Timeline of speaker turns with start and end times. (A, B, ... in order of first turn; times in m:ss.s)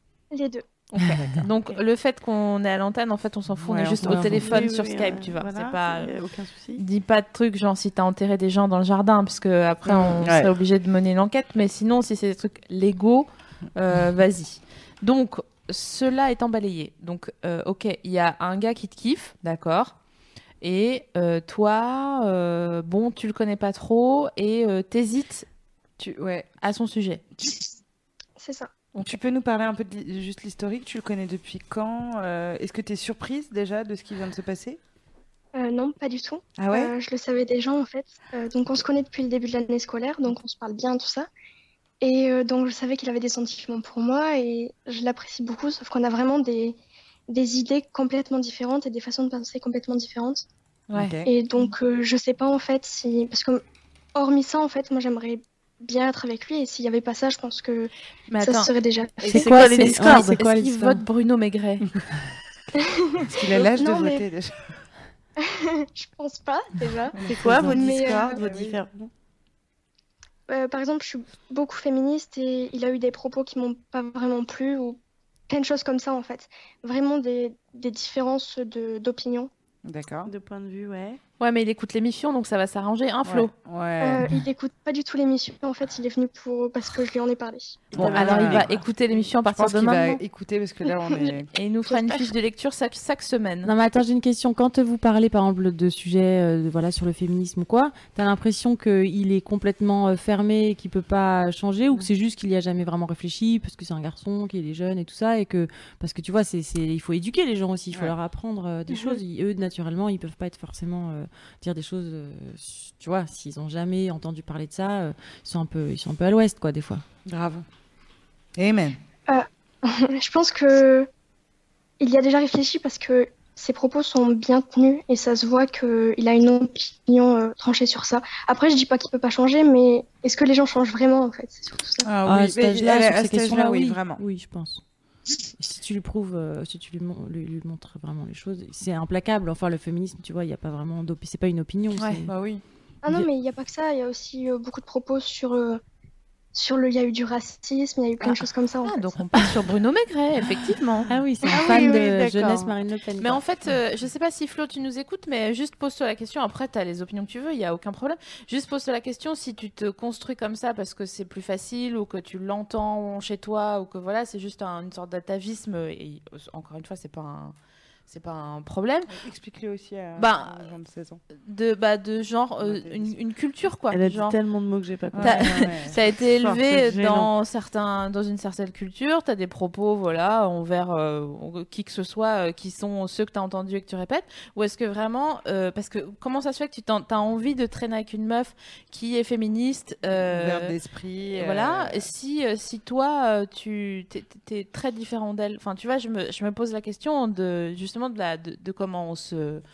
0:00.3-0:00.6 A
0:00.9-0:06.1 B
0:03.5-0:04.6 C
0:04.2-0:06.8 D
0:06.8-0:19.9 B
0:09.8-0:10.5 C
0:20.6-0:25.4 B
0:26.0-0:26.5 C
0:26.6-0:27.2 B
0:28.4-0:28.7 A
0:29.0-0:34.8 C
0:35.5-0:41.3 A
0:36.6-0:36.9 C
0:42.0-0:46.8 A
0:47.3-0:50.4 A
0:50.9-0:51.2 B
0:50.9-0:51.3 C
0:51.2-0:53.6 A
0:54.1-0:59.4 A
0:58.3-1:01.8 B
0:59.3-1:01.0 E
0:59.3-1:00.4 D
1:03.0-1:04.2 A
1:03.3-1:04.6 C
1:05.4-1:07.2 A
1:07.2-1:08.8 C
1:07.2-1:09.1 D
1:07.7-1:08.4 A
1:10.5-1:19.5 A
1:19.8-1:20.3 C
1:20.2-1:21.2 D
1:21.4-1:23.5 B
1:23.2-1:24.2 C
1:24.0-1:27.8 A
1:27.9-1:28.7 D
1:27.9-1:28.8 C
1:28.0-1:30.2 B
1:29.5-1:31.5 C
1:30.9-1:31.3 A
1:31.5-1:33.7 B
1:31.9-1:32.3 A
1:33.6-1:57.0 E
1:57.2-1:57.6 C
1:58.6-1:59.0 C
1:59.3-2:01.1 A
2:02.0-2:12.1 A
2:12.0-2:14.2 C
2:12.2-2:14.8 E
2:15.6-2:22.3 E
2:22.0-2:22.2 B
2:22.3-2:22.6 C
2:23.0-2:25.8 A
2:26.5-2:29.2 A
2:28.3-2:47.5 B
2:31.1-2:33.4 E
2:48.1-2:49.2 B
2:49.1-2:51.2 C
2:50.2-2:50.7 B
2:51.4-2:54.4 B
2:52.6-2:53.2 C
2:53.9-2:57.3 D
2:55.1-2:56.0 C
2:55.2-3:10.7 B
3:10.0-3:12.1 C
3:11.3-3:19.6 B